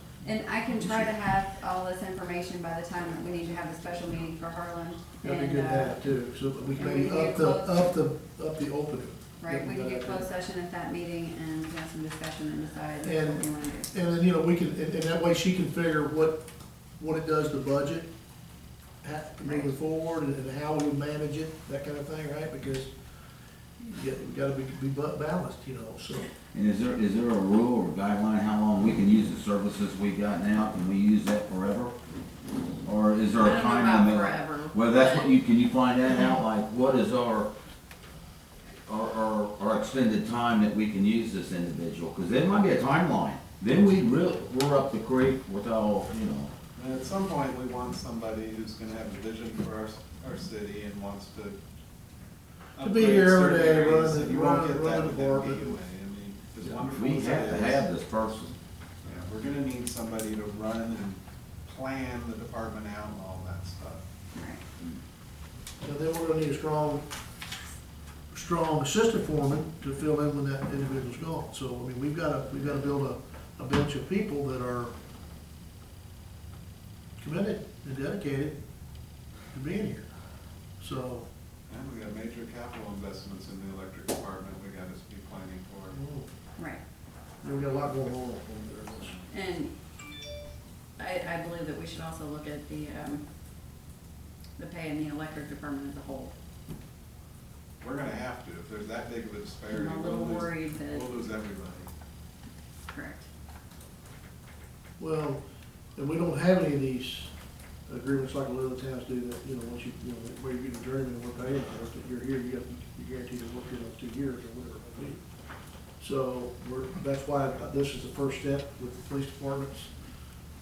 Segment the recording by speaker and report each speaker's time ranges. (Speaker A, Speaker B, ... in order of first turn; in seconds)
Speaker A: 0.2-6.0, 6.8-8.0, 9.4-13.9, 33.3-35.4, 64.3-64.6, 86.6-86.8, 89.3-89.7, 91.0-93.2, 94.6-96.3, 99.7-101.1, 102.9-103.3
Speaker B: 0.7-1.1, 5.2-10.3, 13.0-16.4, 17.0-18.1, 19.0-22.9, 23.8-26.3, 52.8-55.8, 65.8-67.1, 68.3-74.9, 77.2-78.6, 79.5-80.1, 80.8-81.3, 85.9-86.3, 87.4-89.2, 105.0-105.4, 106.0-107.3, 107.9-115.2, 116.0-119.9
Speaker C: 26.5-31.9, 32.9-37.5, 38.9-46.5, 56.7-58.5
Speaker D: 46.8-51.6, 52.8-57.9, 59.0-64.0, 81.7-86.0, 97.8-101.9